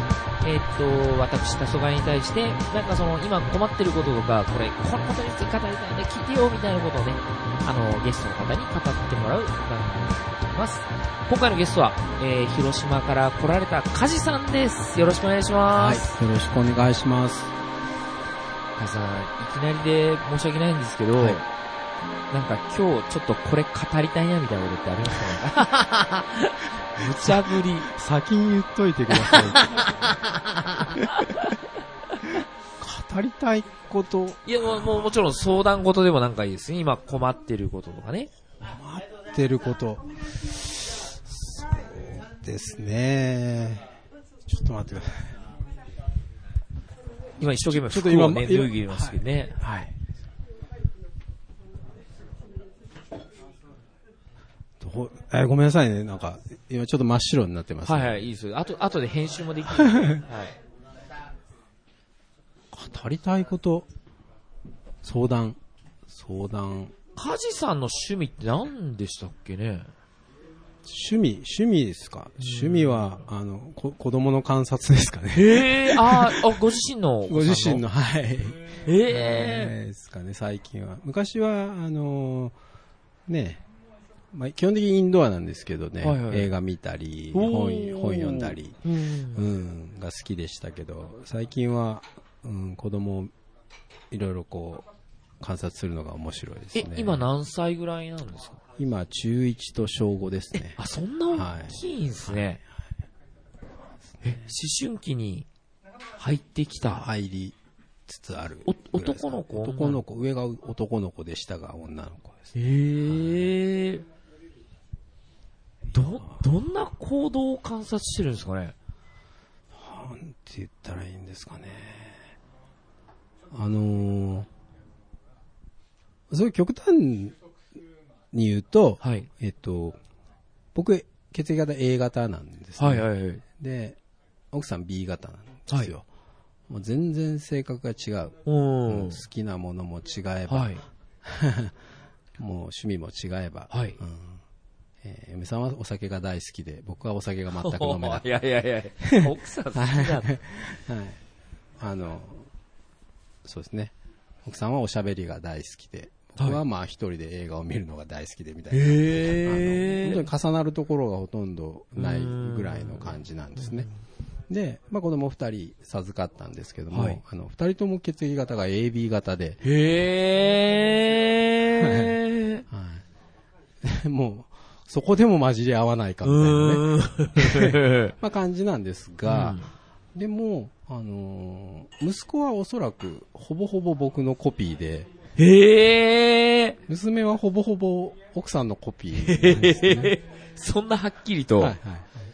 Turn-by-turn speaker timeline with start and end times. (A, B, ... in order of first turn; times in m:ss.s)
0:00.4-0:16.1 A
0:15.7-0:17.5 B
0:18.8-0:21.4 A
0:21.2-0:21.4 B
0:22.3-0:27.9 A
0:27.0-0:30.1 B
0:29.1-0:31.6 A
0:31.0-0:31.4 B
0:32.8-0:35.1 B
0:34.4-0:38.3 A
0:38.6-0:43.8 B
0:44.4-0:45.3 B
0:47.4-0:49.6 A
0:47.4-0:50.0 B
0:54.8-0:58.2 B
0:57.8-1:00.6 A
0:59.7-1:00.3 B
1:02.7-1:03.9 B
1:05.0-1:06.9 B
1:07.1-1:09.9 A
1:10.8-1:16.7 B
1:12.4-1:13.0 A
1:15.3-1:17.8 A
1:17.3-1:22.6 B
1:18.8-1:19.7 A
1:23.3-1:23.6 B
1:24.3-1:33.3 B
1:26.0-1:26.5 A
1:27.3-1:29.5 A
1:34.1-1:34.8 B
1:35.4-1:37.3 B
1:36.7-1:38.6 A
1:38.8-1:40.8 B
1:40.5-1:42.6 A
1:41.3-1:42.4 B
1:44.0-1:44.5 B
1:44.2-1:45.5 A
1:46.2-1:47.1 A
1:46.9-1:52.5 B
1:48.7-1:50.0 A
1:52.5-1:54.0 A
1:53.0-1:53.3 B
1:55.9-1:58.7 A
1:56.1-1:56.4 B
1:59.7-2:02.2 B
2:03.5-2:04.5 B
2:06.3-2:07.4 B
2:08.3-2:10.0 B
2:09.0-2:09.3 A
2:10.7-2:14.0 B
2:12.8-2:13.4 A
2:14.5-2:16.0 B
2:16.7-2:21.7 B
2:18.4-2:19.2 A
2:20.5-2:20.8 A
2:22.4-2:24.4 B
2:23.7-2:24.0 A
2:25.0-2:28.2 B
2:27.5-2:30.3 A
2:29.0-2:31.2 B
2:31.8-2:32.5 B
2:33.4-2:33.9 B
2:34.4-2:43.9 B
2:38.7-2:40.3 A
2:42.0-2:43.9 A
2:44.5-2:49.6 B
2:46.9-2:47.2 A
2:49.6-2:52.6 A
2:51.8-2:53.0 B
2:53.8-3:05.1 B
2:56.2-2:58.1 A
2:59.2-2:59.7 A
3:05.4-3:06.8 A
3:06.9-3:10.1 B
3:09.2-3:11.8 A
3:11.6-3:12.2 B